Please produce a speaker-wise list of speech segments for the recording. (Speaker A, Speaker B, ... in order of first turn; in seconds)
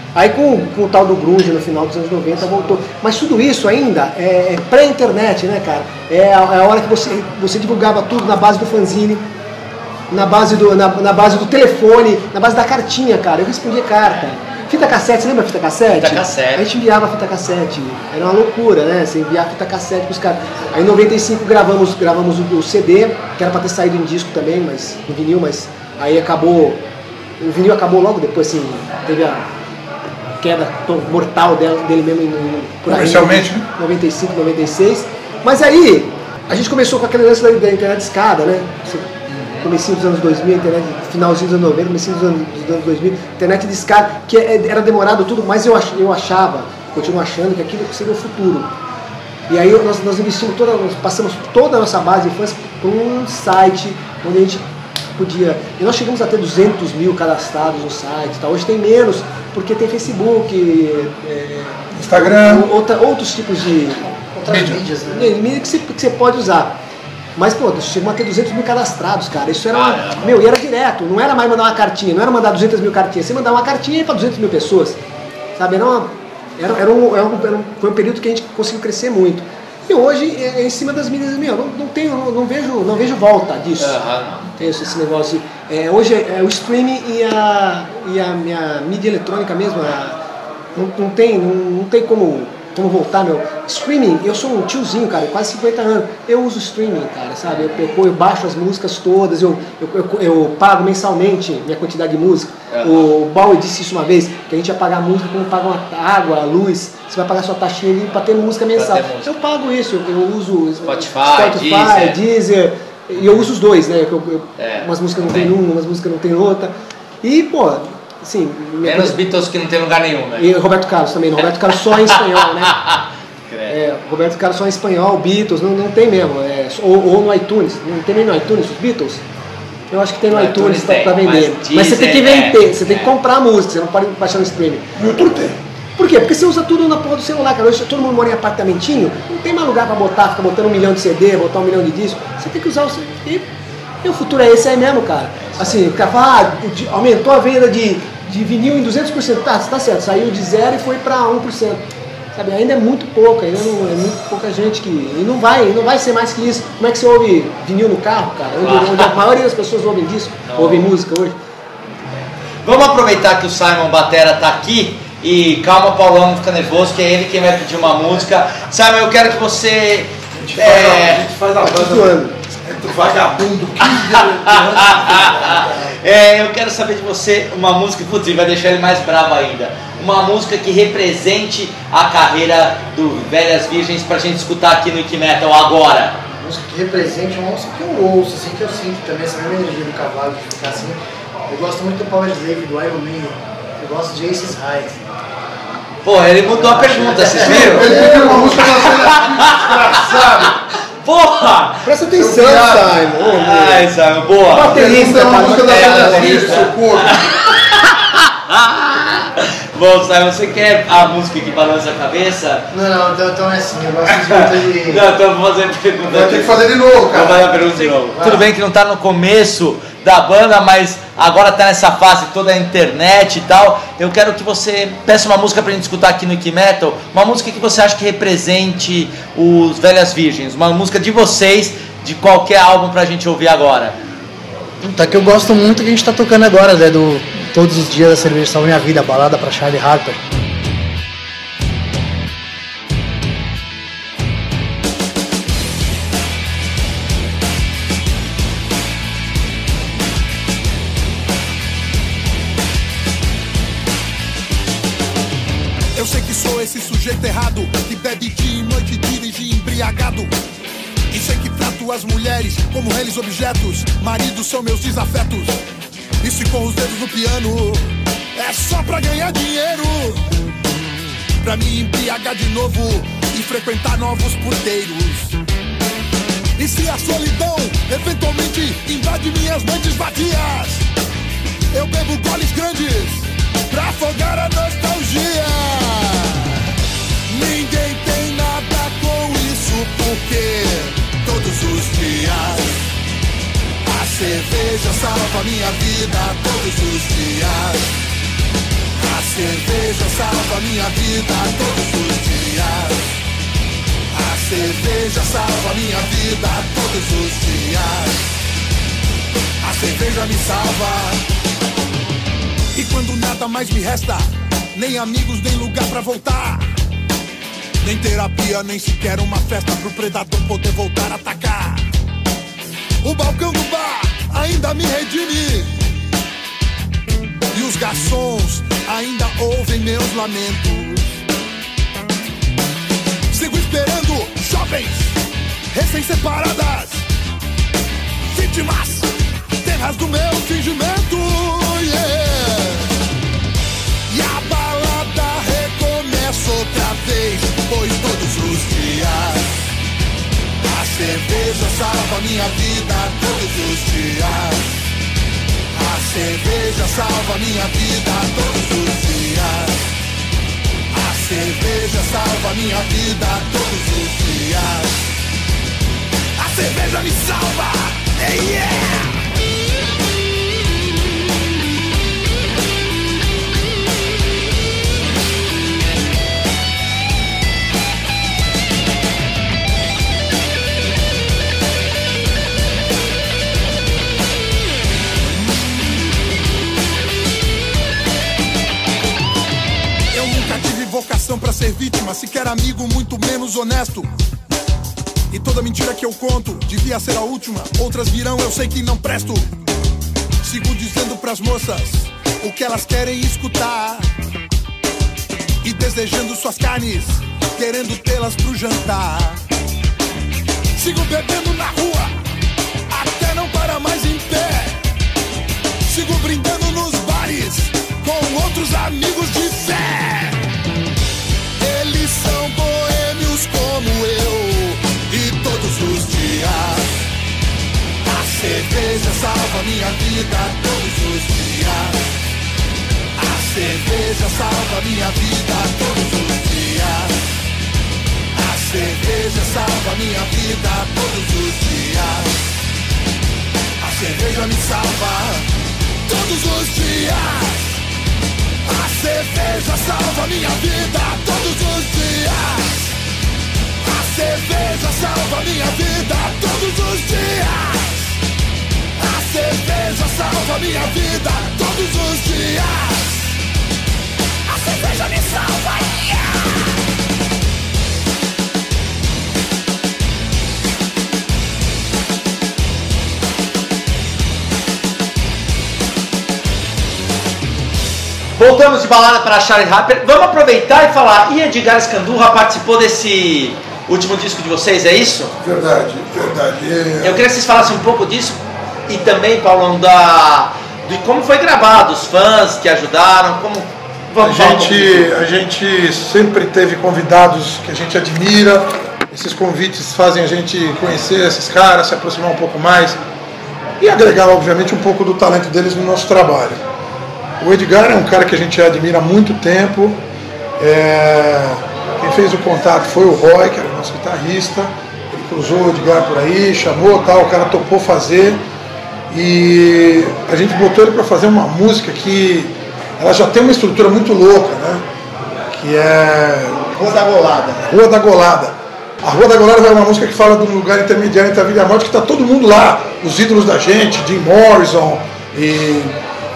Speaker A: 0.1-9.3, 10.1-26.8, 27.4-29.5, 30.4-39.1, 39.6-48.7, 49.5-54.6, 55.2-64.1, 65.1-66.7, 67.3-75.0, 75.5-84.0, 84.6-90.2, 90.7-119.2, 120.4-122.8, 123.7-129.2, 129.9-134.9, 136.0-143.5, 144.0-151.8, 152.3-161.4, 171.6-172.3, 197.8-198.5, 201.8-203.9, 204.5-206.7, 526.8-527.7
Speaker B: 15.9-16.6, 39.3-39.6, 69.7-70.4, 83.8-84.5, 102.7-103.0, 108.7-109.3, 110.8-112.2, 114.6-115.5, 118.8-120.5, 122.1-123.7, 130.3-133.1, 158.6-159.1, 160.5-160.9, 162.6-171.3, 173.8-186.2, 196.0-198.1, 198.7-204.9, 205.4-212.7, 214.1-233.9, 478.4-485.3, 487.0-495.2
Speaker C: 32.9-33.7, 61.9-62.7, 64.4-64.8, 134.9-135.6, 170.3-175.9, 197.4-200.6, 204.5-207.3, 216.1-217.6, 390.1-393.0, 396.4-396.6, 485.4-487.2, 494.2-503.0, 503.8-506.6, 507.4-510.0, 510.6-518.4, 519.1-524.8, 525.5-526.8, 527.6-536.0
Speaker D: 64.3-65.3, 186.4-195.0, 196.5-198.9, 212.7-215.1, 218.1-218.4, 234.8-240.2
Speaker E: 255.9-260.3, 261.1-265.5, 266.2-270.1, 271.4-275.3, 276.6-280.8, 281.7-286.5, 287.3-292.8, 293.9-297.9, 299.0-303.0, 304.1-308.2, 309.6-311.2, 312.7-316.6, 317.8-321.8, 323.0-325.7, 327.5-331.1, 333.3-335.1, 335.7-337.0, 338.3-339.1, 339.6-342.9, 344.1-349.5, 350.7-354.6, 355.8-359.8, 360.9-364.9, 366.4-369.0, 393.1-394.0, 395.3-399.4, 400.4-404.1, 405.6-409.4, 410.8-412.1, 412.9-414.8, 415.9-420.4, 421.6-426.8, 428.1-432.0, 433.2-437.1, 438.4-442.3, 443.8-445.4, 446.1-447.6, 448.7-452.8, 453.9-457.9, 459.0-463.1, 464.5-466.5